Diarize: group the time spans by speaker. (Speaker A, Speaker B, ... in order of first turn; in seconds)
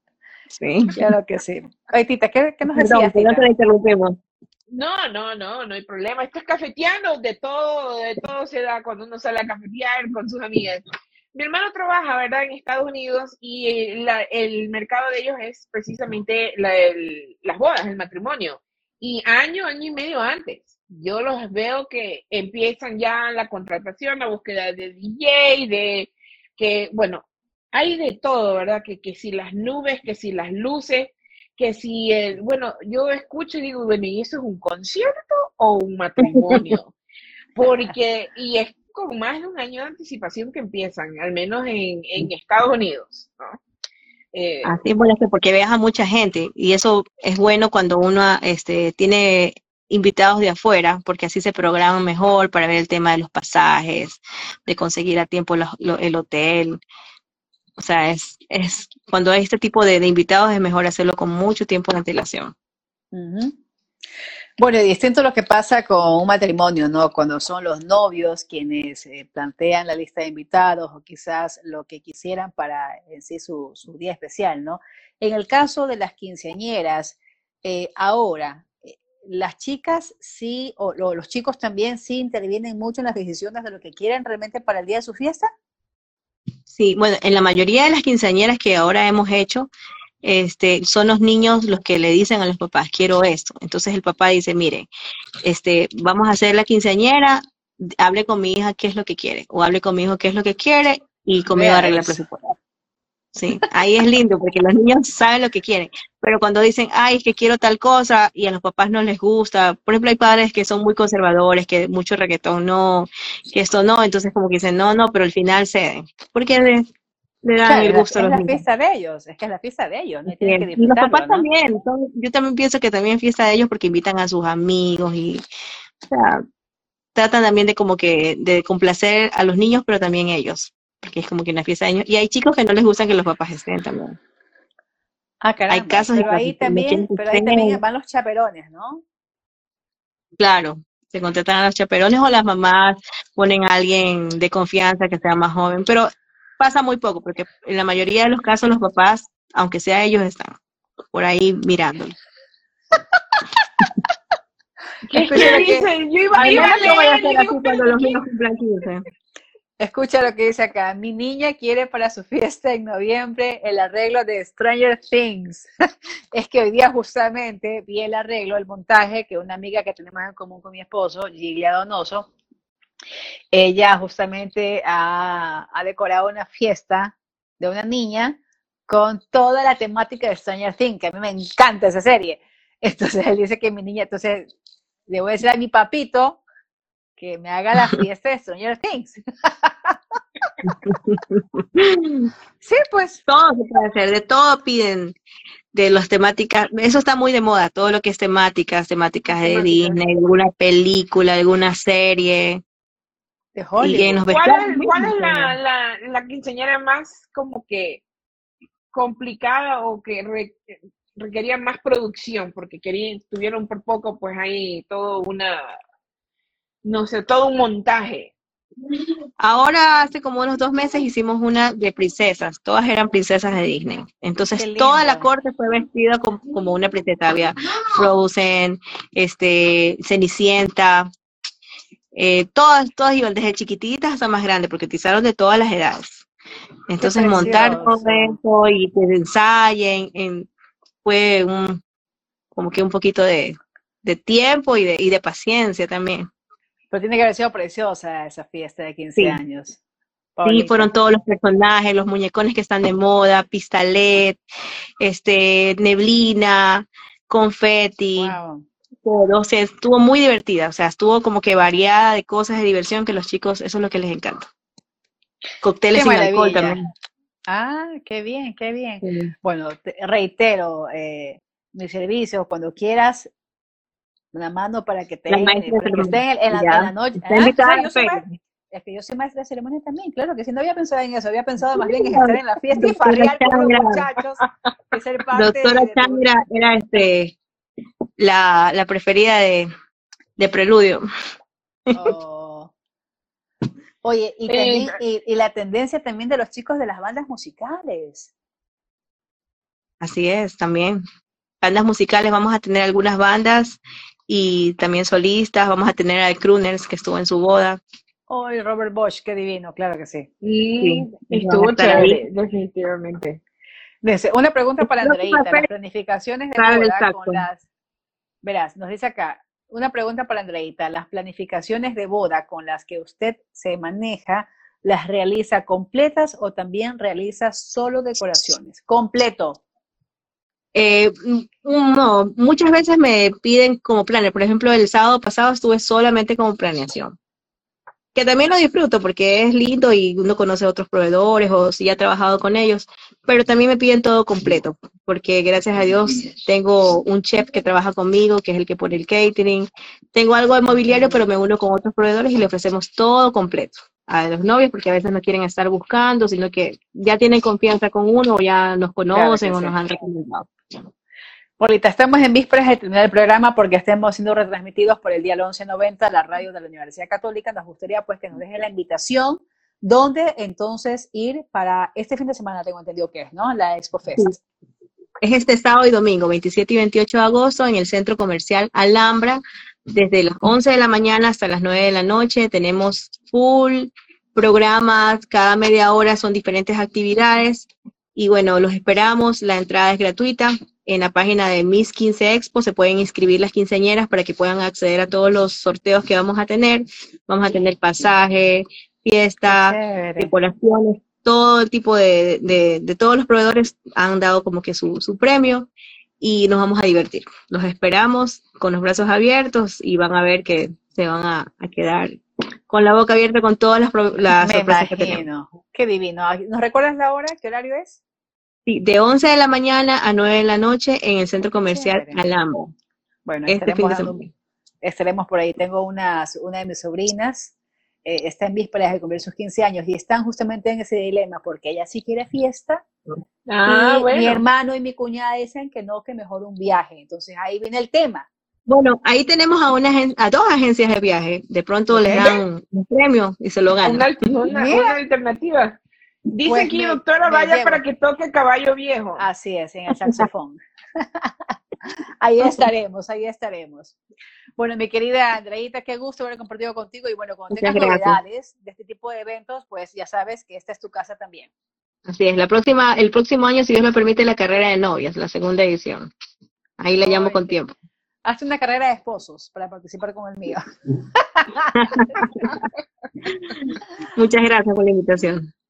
Speaker A: 0.6-1.1, 2.7-4.2, 36.5-36.8, 44.6-56.8, 57.8-62.5, 86.7-89.7, 90.2-94.9, 95.4-97.4, 98.0-102.5, 103.3-116.9, 117.4-118.6, 120.3-125.4, 126.1-126.4, 127.1-134.2, 135.7-137.8, 140.4-150.6, 151.1-152.2, 155.2-155.8, 156.3-159.0, 190.9-192.3, 193.3-195.1, 195.7-202.6, 203.8-204.8, 219.4-231.1, 232.1-236.2, 236.9-240.5, 241.0-241.8, 242.5-246.3, 250.4-254.4, 255.0-258.4, 259.0-264.4, 265.6-266.9, 269.0-269.3, 275.3-278.3, 282.0-284.0, 285.3-287.4, 288.2-289.7, 290.4-291.1, 300.0-301.0, 301.6-307.8, 310.8-312.2, 315.0-315.6, 316.6-317.4, 330.7-337.1, 338.1-360.5, 375.2-405.7, 406.2-415.2, 418.6-422.7, 423.5-424.3, 438.7-444.1, 457.5-458.2, 462.1-466.1, 466.8-467.7, 471.7-472.6, 473.4-475.5
Speaker B: 0.9-3.5, 63.1-63.5, 64.6-85.5, 101.5-102.2, 117.7-121.5, 135.4-139.0, 155.3-155.8, 156.4-156.9, 159.8-165.7, 166.3-172.3, 173.5-184.5, 185.1-186.4, 187.2-190.1, 192.6-193.2, 203.5-205.5, 224.6-225.3, 237.0-238.4, 246.9-249.8, 250.4-250.9, 258.1-258.6, 265.9-266.8, 267.5-273.3, 274.3-286.3, 291.9-292.7, 294.0-298.3, 308.3-310.3, 314.0-317.6, 318.4-329.6, 350.9-351.2, 359.1-359.8, 361.6-374.4, 399.5-400.3, 414.4-418.0, 421.7-422.2, 423.2-424.1, 424.8-427.5, 428.0-432.8, 433.6-438.3, 441.9-442.3, 444.5-445.0, 446.4-447.8, 449.2-451.5, 452.2-453.9, 454.6-461.5, 467.0-467.6, 468.2-470.6, 471.1-472.6
Speaker C: 4.7-36.9, 37.5-43.6, 44.3-44.7, 155.1-158.2, 199.4-200.0, 204.2-208.0, 208.9-215.7, 216.8-218.3, 294.5-295.0, 310.4-313.4, 433.5-434.4, 442.1-442.4, 443.8-445.8, 446.3-449.2